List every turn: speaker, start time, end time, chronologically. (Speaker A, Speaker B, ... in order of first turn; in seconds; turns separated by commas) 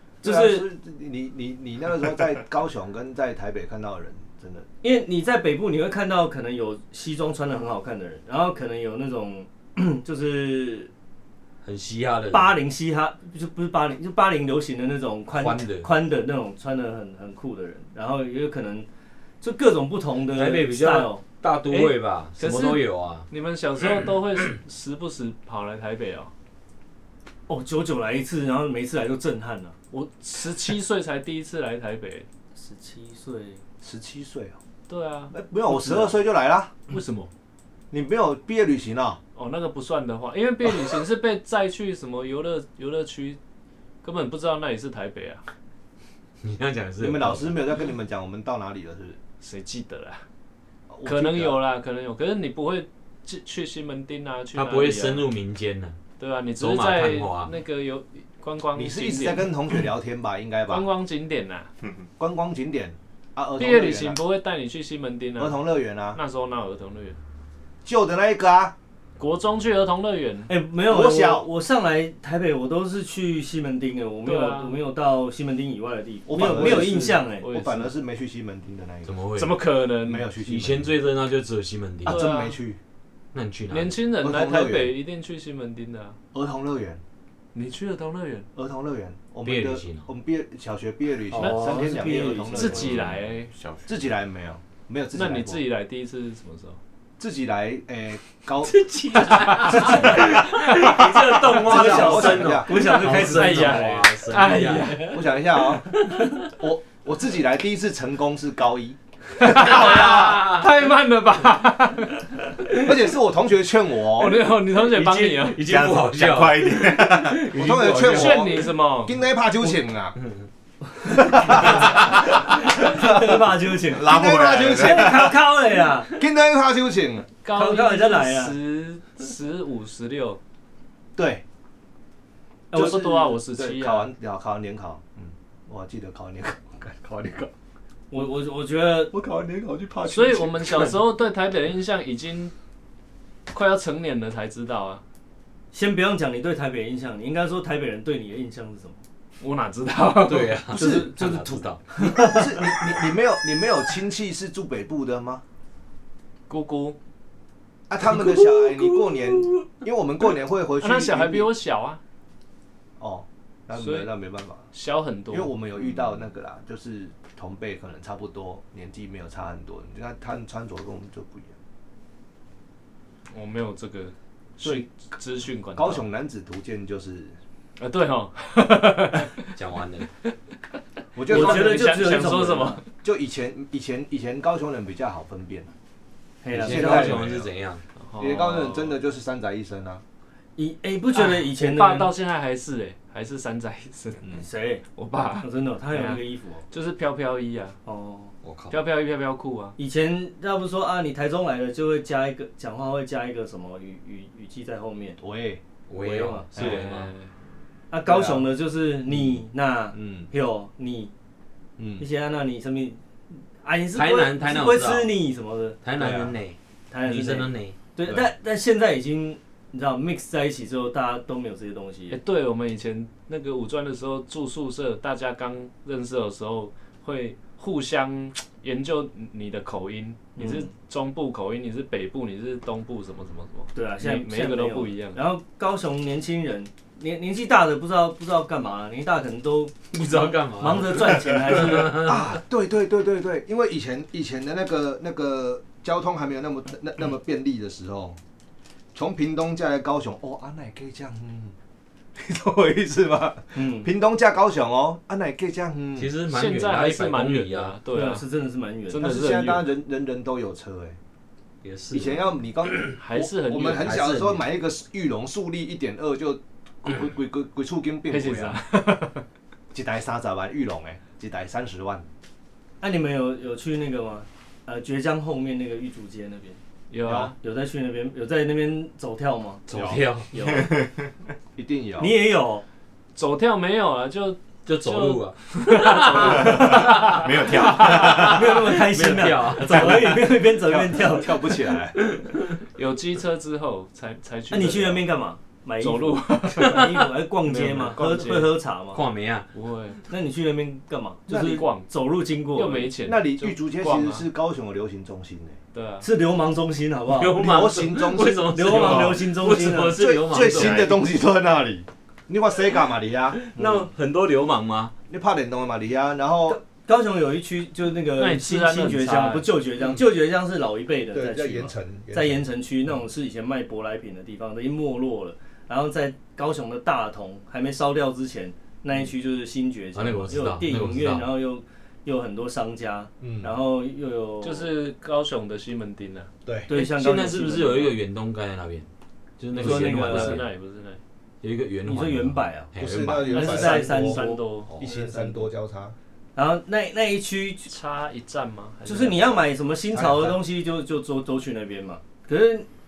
Speaker A: 0.2-4.7, Speaker B: 0.2-0.7, Speaker B: 4.8-10.9, Speaker C: 11.6-12.6, Speaker B: 12.3-18.9, Speaker C: 15.3-15.9, Speaker B: 19.4-21.2, Speaker C: 20.3-23.3, Speaker D: 21.7-26.3, Speaker B: 27.5-29.8, Speaker D: 29.9-32.3, Speaker B: 32.6-33.6, Speaker A: 33.8-34.6, Speaker D: 34.9-35.9, Speaker A: 35.3-36.7, Speaker D: 36.9-37.3, Speaker A: 37.9-39.2, Speaker D: 39.4-43.4, Speaker D: 44.0-45.4, Speaker C: 46.4-47.6, Speaker A: 47.0-49.2, Speaker D: 49.4-50.2, Speaker A: 50.9-51.6, Speaker D: 51.0-55.3, Speaker C: 54.5-56.0, Speaker D: 56.2-59.8, Speaker C: 56.6-57.5, Speaker A: 58.8-60.9, Speaker D: 60.7-61.7, Speaker A: 62.2-64.2, Speaker D: 63.6-65.6, Speaker A: 65.4-66.2, Speaker D: 66.1-67.2, Speaker A: 67.8-68.7, Speaker D: 69.2-70.5, Speaker B: 70.5-77.5, Speaker A: 70.9-71.5, Speaker D: 74.2-74.8, Speaker A: 76.3-79.2, Speaker D: 76.6-77.9, Speaker C: 79.0-79.6, Speaker D: 79.3-80.3, Speaker A: 80.0-80.9, Speaker C: 80.4-82.3, Speaker A: 82.0-82.8, Speaker D: 82.1-82.6, Speaker C: 83.3-84.0, Speaker D: 83.7-86.2, Speaker A: 84.2-85.0, Speaker A: 86.3-87.0, Speaker D: 87.5-88.5, Speaker A: 88.6-92.9, Speaker C: 89.4-90.1, Speaker D: 91.3-91.9, Speaker B: 91.4-92.9, Speaker D: 92.5-93.5, Speaker E: 92.8-94.0, Speaker A: 93.9-95.6, Speaker D: 95.1-96.8, Speaker A: 97.2-98.8, Speaker C: 98.6-105.2, Speaker D: 99.2-101.5, Speaker A: 99.5-100.5, Speaker B: 101.5-104.0, Speaker A: 101.5-102.8, Speaker D: 102.7-105.2, Speaker A: 105.0-110.5, Speaker D: 109.4-112.9, Speaker C: 109.7-110.7, Speaker A: 112.7-114.4, Speaker D: 114.2-115.6, Speaker C: 114.7-118.5, Speaker E: 115.6-117.5, Speaker A: 117.5-120.2, Speaker D: 117.9-119.2, Speaker C: 120.2-120.5, Speaker A: 121.1-125.4, Speaker B: 121.5-126.2, Speaker E: 123.9-125.3, Speaker A: 126.1-127.3, Speaker D: 127.4-130.4, Speaker B: 127.5-128.6, Speaker A: 131.2-131.4, Speaker B: 132.7-133.2, Speaker A: 132.7-137.5, Speaker D: 132.7-134.1, Speaker B: 138.1-139.1, Speaker A: 139.1-140.9, Speaker D: 140.1-142.5, Speaker D: 143.5-145.0, Speaker B: 145.7-149.0, Speaker D: 149.4-150.6, Speaker C: 150.2-151.8, Speaker A: 150.7-155.4, Speaker B: 150.8-151.1, Speaker D: 156.5-157.0, Speaker A: 157.9-161.5, Speaker C: 158.0-159.6, Speaker D: 160.8-162.0, Speaker A: 163.0-164.7, Speaker D: 163.8-164.1, Speaker D: 164.7-165.5, Speaker A: 165.3-171.5, Speaker D: 173.3-176.1, Speaker A: 174.6-174.9, Speaker A: 175.8-177.4, Speaker D: 177.8-179.5, Speaker C: 179.6-180.1, Speaker A: 181.2-182.1, Speaker B: 181.3-182.8, Speaker D: 181.3-182.9, Speaker A: 183.0-185.7, Speaker B: 186.4-187.3, Speaker A: 186.5-187.5, Speaker C: 186.5-187.8, Speaker D: 188.0-189.0, Speaker A: 188.2-190.0, Speaker B: 190.6-192.1, Speaker D: 191.1-194.2, Speaker B: 194.3-194.8, Speaker D: 195.0-197.8, Speaker B: 195.4-196.6, Speaker B: 197.9-198.3, Speaker C: 198.4-198.8, Speaker D: 198.7-199.8, Speaker B: 199.8-205.2, Speaker A: 205.2-205.6, Speaker C: 205.9-207.1, Speaker B: 206.0-206.8, Speaker A: 206.6-206.8, Speaker D: 206.6-207.3, Speaker B: 207.9-211.1, Speaker A: 208.1-208.5, Speaker A: 209.9-210.3, Speaker A: 211.8-212.1, Speaker B: 212.0-216.4, Speaker C: 213.9-215.2, Speaker C: 215.8-217.8, Speaker B: 216.9-222.2, Speaker D: 222.1-235.2, Speaker B: 230.4-230.7, Speaker B: 233.8-242.1, Speaker C: 239.9-242.3, Speaker A: 241.9-248.2, Speaker A: 248.9-251.6, Speaker A: 252.2-256.1, Speaker B: 253.6-253.9, Speaker C: 256.0-257.8, Speaker D: 256.3-258.3, Speaker B: 257.9-259.0, Speaker D: 258.9-259.7, Speaker A: 258.9-261.0, Speaker C: 261.6-262.9, Speaker A: 261.9-268.6, Speaker D: 262.9-264.1, Speaker C: 263.7-264.5, Speaker D: 268.1-269.2, Speaker A: 269.7-272.1, Speaker B: 272.8-276.6, Speaker D: 276.9-277.4, Speaker A: 277.1-277.3, Speaker B: 277.4-280.8, Speaker C: 279.7-280.3, Speaker A: 279.7-280.0, Speaker E: 280.3-281.1, Speaker A: 281.6-282.2, Speaker B: 282.0-282.6, Speaker D: 283.2-288.1, Speaker C: 284.7-290.3, Speaker E: 286.2-288.6, Speaker B: 287.9-291.5, Speaker A: 290.5-292.0, Speaker D: 292.8-295.1, Speaker B: 294.5-299.0, Speaker D: 295.8-298.6, Speaker C: 296.6-297.1, Speaker C: 298.9-299.5, Speaker D: 299.5-300.0, Speaker B: 300.1-302.9, Speaker D: 301.3-301.9, Speaker A: 301.3-301.6, Speaker D: 302.5-304.3, Speaker A: 303.0-305.6, Speaker D: 305.7-306.1, Speaker B: 306.0-307.4, Speaker C: 307.1-311.0, Speaker A: 307.4-313.4, Speaker B: 308.4-310.0, Speaker C: 313.5-314.9, Speaker B: 313.6-313.9, Speaker A: 315.1-316.6, Speaker B: 316.5-334.7, Speaker D: 318.1-319.5, Speaker A: 321.1-322.5, Speaker C: 329.9-331.3, Speaker A: 333.2-333.5, Speaker D: 334.4-336.3, Speaker A: 336.4-336.7, Speaker B: 336.7-337.9, Speaker C: 336.7-338.9, Speaker C: 339.4-340.5, Speaker B: 339.5-340.4, Speaker D: 339.5-341.0, Speaker C: 341.4-343.3, Speaker B: 341.9-345.4, Speaker A: 342.8-345.9, Speaker D: 343.3-345.3, Speaker B: 346.4-347.7, Speaker D: 347.7-349.5, Speaker B: 348.9-352.7, Speaker A: 349.9-350.4